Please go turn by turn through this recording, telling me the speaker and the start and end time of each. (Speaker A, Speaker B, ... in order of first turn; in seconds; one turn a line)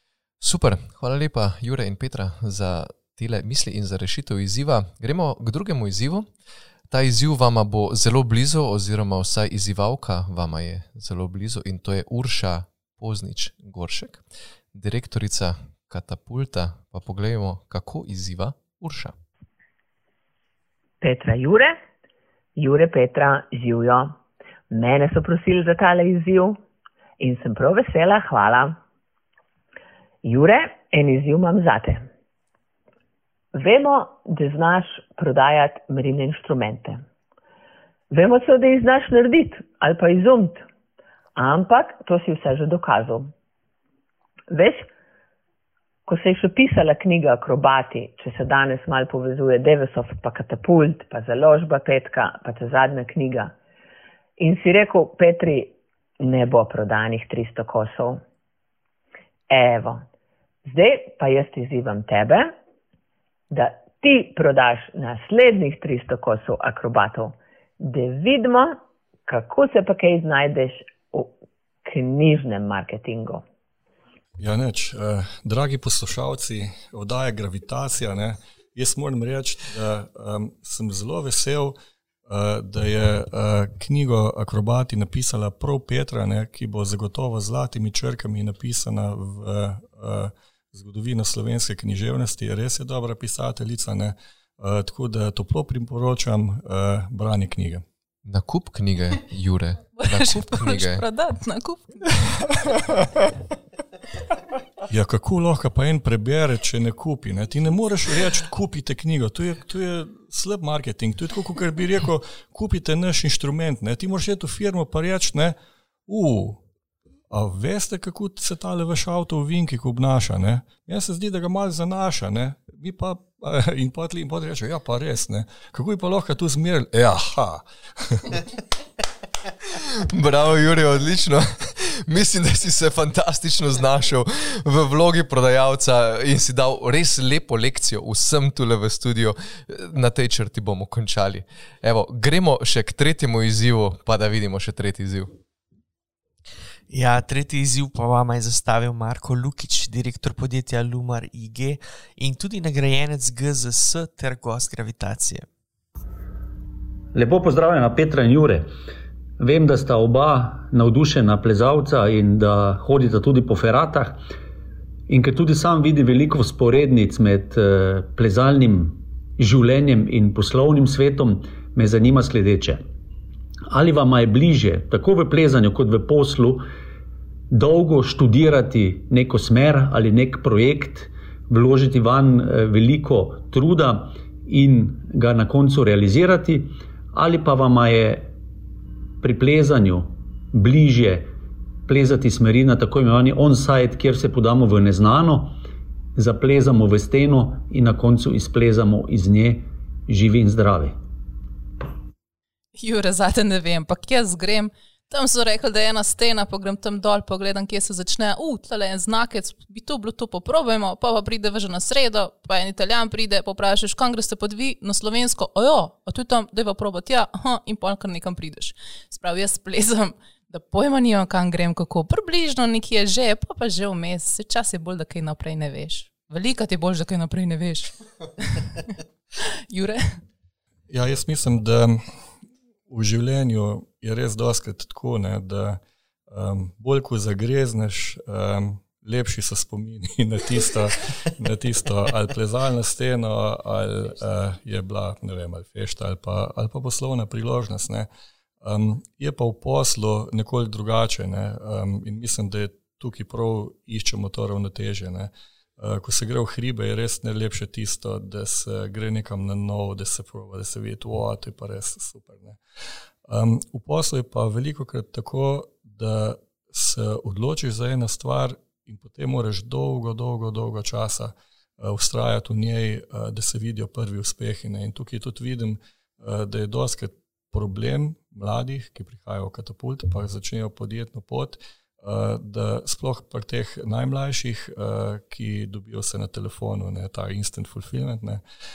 Speaker A: 0.4-6.3
Speaker A: 6.9-19.1
Speaker B: 21.0-21.8
Speaker B: 22.6-24.2
Speaker B: 24.7-26.6
Speaker B: 27.2-28.8
Speaker B: 30.2-32.1
Speaker B: 33.5-37.0
Speaker B: 38.1-40.6
Speaker B: 41.4-43.3
Speaker B: 44.5-44.9
Speaker B: 46.1-53.5
Speaker B: 54.4-58.2
Speaker B: 59.5-60.0
Speaker B: 60.6-62.5
Speaker B: 63.5-73.4
Speaker C: 74.4-81.7
Speaker C: 82.3-97.8
Speaker A: 98.2-101.0
Speaker D: 100.0-102.8
Speaker C: 104.9-115.5
Speaker C: 116.1-116.6
Speaker C: 117.3-128.3
Speaker A: 129.8-145.4
Speaker E: 146.9-155.5
Speaker F: 157.1-158.7
Speaker F: 159.4-164.2
Speaker F: 165.1-172.8
Speaker F: 173.7-176.7
Speaker F: 177.5-188.3
Speaker F: 189.2-191.3
Speaker F: 191.9-195.6
Speaker F: 196.1-201.0
Speaker D: 202.8-230.2
Speaker C: 230.9-232.1
Speaker C: 232.9-248.1
Speaker C: 248.6-262.6
Speaker C: 263.3-288.4